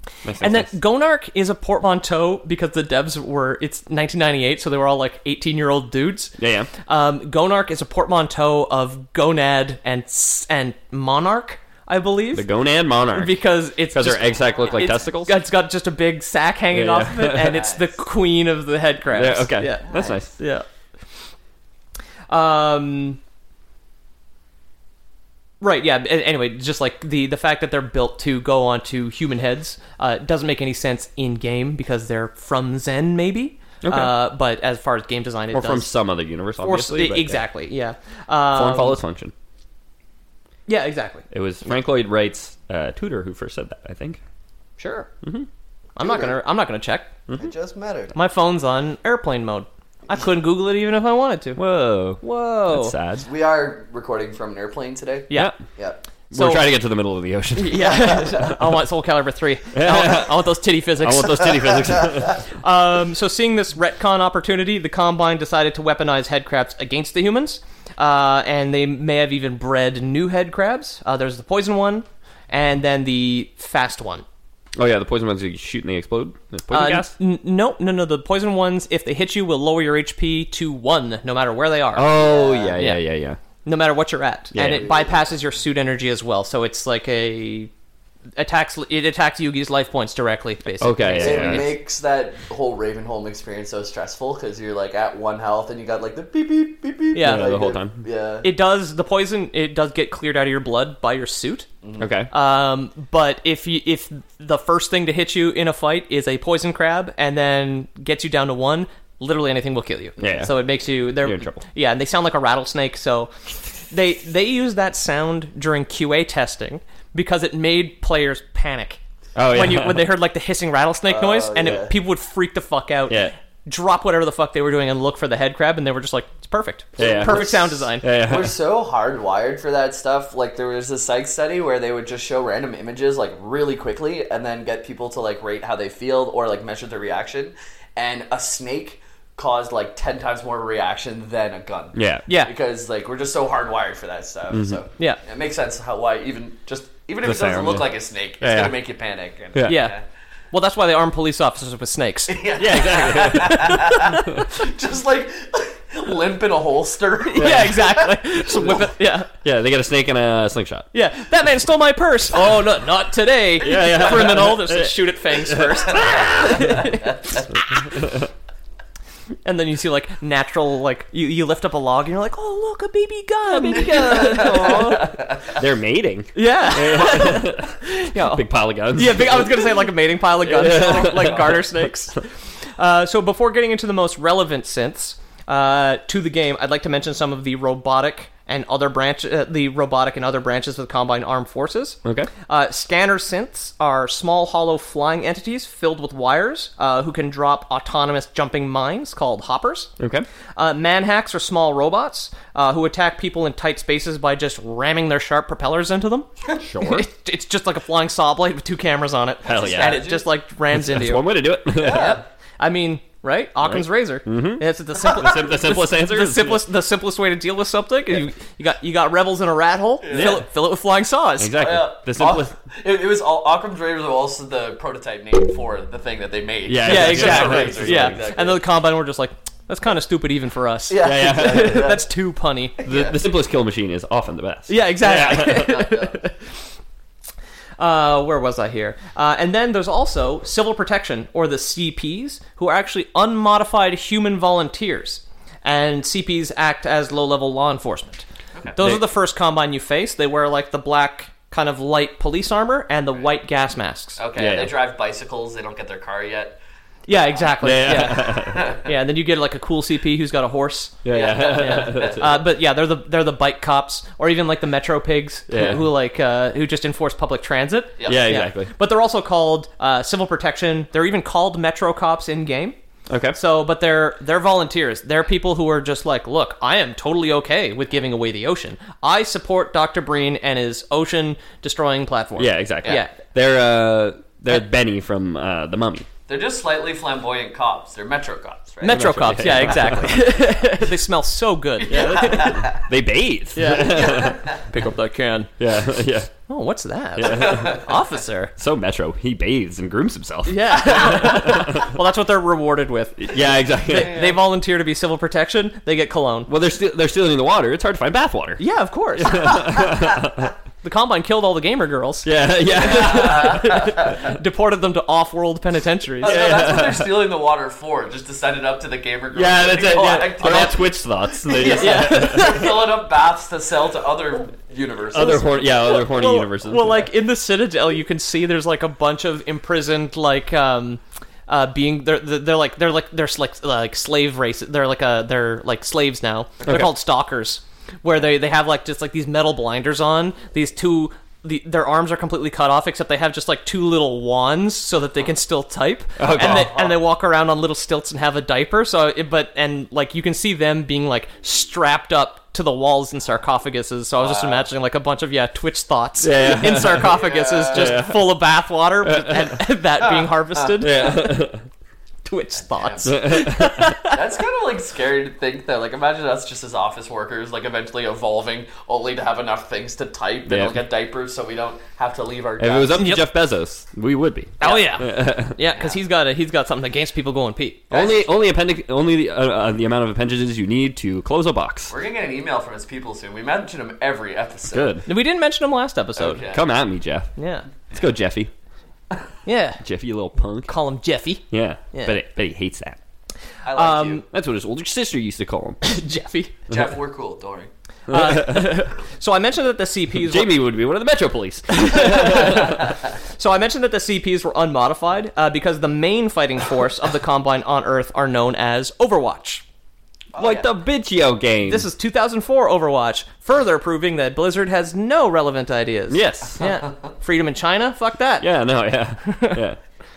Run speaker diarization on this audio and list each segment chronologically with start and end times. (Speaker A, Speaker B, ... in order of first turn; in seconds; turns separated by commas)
Speaker A: 0.2-0.7, Speaker B: 0.4-6.3, Speaker A: 6.4-6.7, Speaker B: 6.9-12.5, Speaker A: 12.3-15.4, Speaker B: 13.1-20.6, Speaker C: 14.4-15.0, Speaker A: 16.7-17.7, Speaker C: 17.4-17.9, Speaker A: 19.1-20.3, Speaker C: 19.9-20.2, Speaker B: 22.3-23.2, Speaker B: 25.6-35.9, Speaker A: 33.8-34.2, Speaker A: 35.5-37.4, Speaker B: 36.6-39.0, Speaker A: 38.5-39.3, Speaker B: 40.7-41.3, Speaker A: 41.3-44.2, Speaker B: 44.8-45.1, Speaker A: 45.2-45.5, Speaker B: 46.0-47.1, Speaker C: 46.0-46.4, Speaker C: 47.3-48.1, Speaker B: 48.1-51.6, Speaker A: 51.6-53.3, Speaker B: 52.2-53.0, Speaker C: 53.3-56.0, Speaker A: 55.3-55.6, Speaker A: 56.3-58.3, Speaker B: 56.3-56.7, Speaker B: 57.6-61.7, Speaker C: 57.9-58.6, Speaker A: 59.7-62.4, Speaker B: 62.5-74.2, Speaker A: 74.8-77.1, Speaker B: 76.7-82.1, Speaker A: 82.0-83.4, Speaker C: 82.1-82.8, Speaker B: 83.6-87.7, Speaker A: 84.5-84.9, Speaker C: 84.6-85.3, Speaker B: 88.4-91.8, Speaker A: 90.8-91.8, Speaker C: 91.2-98.5, Speaker B: 97.1-97.5, Speaker A: 97.2-98.0, Speaker B: 98.4-101.7, Speaker C: 101.8-102.1, Speaker A: 102.0-102.3, Speaker B: 102.3-113.3, Speaker A: 110.2-110.5, Speaker A: 111.2-111.6, Speaker B: 113.9-128.1, Speaker A: 119.3-120.1, Speaker C: 121.1-122.0, Speaker A: 123.1-123.3, Speaker A: 127.0-128.6, Speaker C: 127.0-150.0, Speaker A: 141.9-142.2, Speaker B: 142.3-142.5, Speaker A: 144.5-144.8, Speaker A: 147.2-147.9, Speaker A: 148.4-148.7, Speaker A: 149.5-149.8, Speaker B: 149.7-150.0, Speaker B: 150.5-152.4, Speaker C: 152.3-158.8, Speaker A: 152.6-154.4, Speaker B: 153.2-154.2, Speaker B: 157.2-159.3, Speaker A: 157.4-157.8, Speaker A: 159.4-160.9, Speaker B: 160.9-167.3, Speaker A: 163.6-166.8, Speaker C: 163.8-164.3, Speaker C: 166.4-166.7, Speaker A: 167.9-168.3, Speaker B: 169.4-175.1, Speaker A: 173.5-179.8, Speaker C: 173.7-175.6, Speaker B: 176.3-182.2, Speaker A: 180.4-181.9, Speaker C: 180.7-181.6, Speaker B: 182.8-199.9, Speaker A: 192.0-192.3, Speaker A: 200.0-200.3, Speaker B: 200.6-221.6, Speaker A: 206.6-207.1, Speaker A: 209.4-210.1, Speaker C: 209.5-210.3, Speaker A: 210.7-212.2, Speaker C: 211.7-212.2, Speaker A: 213.6-216.7, Speaker C: 220.0-220.4, Speaker A: 220.1-220.4, Speaker A: 221.4-222.6, Speaker C: 221.6-228.6, Speaker A: 226.7-228.2, Speaker B: 226.8-232.8, Speaker C: 230.9-232.1, Speaker A: 231.0-231.9, Speaker C: 232.8-233.2, Speaker A: 232.9-235.9, Speaker B: 234.7-236.3, Speaker C: 235.1-236.2, Speaker B: 237.8-254.2, Speaker A: 248.8-249.0, Speaker C: 254.2-256.6, Speaker A: 254.4-254.7, Speaker B: 257.1-261.0, Speaker C: 257.1-258.9, Speaker A: 257.6-258.7, Speaker A: 261.0-262.4, Speaker C: 261.1-262.3, Speaker B: 261.5-272.8, Speaker A: 265.5-265.9, Speaker C: 268.0-268.3, Speaker A: 268.0-268.7, Speaker A: 273.1-273.4, Speaker B: 273.3-283.1, Speaker A: 282.4-286.1, Speaker C: 286.3-289.9, Speaker B: 288.8-292.7, Speaker A: 288.9-290.1, Speaker C: 291.8-292.9, Speaker A: 291.9-294.5, Speaker B: 293.6-295.5, Speaker C: 293.7-294.6, Speaker A: 295.6-296.3, Speaker B: 296.5-298.5, Speaker A: 297.2-297.9, Speaker C: 297.3-297.9, Speaker A: 298.6-301.9, Speaker B: 300.5-303.3, Speaker A: 303.2-304.2, Speaker B: 303.9-306.5, Speaker C: 303.9-304.4, Speaker A: 306.5-308.6, Speaker B: 308.6-309.8, Speaker A: 309.2-310.5, Speaker B: 310.8-316.3, Speaker A: 312.2-313.9, Speaker C: 312.8-314.2, Speaker C: 316.2-325.5, Speaker A: 316.2-317.1, Speaker A: 319.3-322.7, Speaker B: 321.5-322.8, Speaker A: 325.1-327.1, Speaker B: 325.2-361.2, Speaker A: 336.7-336.9, Speaker A: 346.2-346.8, Speaker C: 346.3-347.0, Speaker C: 354.2-354.6, Speaker A: 356.2-358.3, Speaker C: 357.0-358.1, Speaker A: 359.0-359.6, Speaker C: 360.0-360.8, Speaker A: 360.8-361.6, Speaker B: 362.2-364.2, Speaker C: 362.7-363.2, Speaker A: 363.0-363.9, Speaker C: 364.1-373.1, Speaker A: 370.5-370.9, Speaker A: 372.6-375.6, Speaker B: 372.9-373.2, Speaker B: 374.6-377.9, Speaker C: 375.7-376.0, Speaker A: 377.9-381.9, Speaker C: 377.9-378.3, Speaker C: 381.9-385.0, Speaker A: 384.7-385.1, Speaker B: 385.1-386.4, Speaker C: 386.2-386.7, Speaker A: 386.5-387.3, Speaker B: 387.4-387.7, Speaker A: 387.9-388.5, Speaker B: 389.4-389.8, Speaker A: 389.8-390.7, Speaker B: 390.6-392.2, Speaker A: 391.5-393.0, Speaker C: 393.6-394.2, Speaker B: 393.7-394.2, Speaker A: 394.3-395.8, Speaker B: 395.8-396.5, Speaker C: 396.7-397.7, Speaker A: 398.1-398.9, Speaker B: 398.1-400.6, Speaker A: 400.1-402.9, Speaker B: 401.7-402.9, Speaker B: 403.4-409.6, Speaker C: 410.3-410.7, Speaker A: 410.4-411.9, Speaker B: 411.6-418.5, Speaker A: 416.1-416.6, Speaker A: 418.4-419.8, Speaker B: 419.2-419.6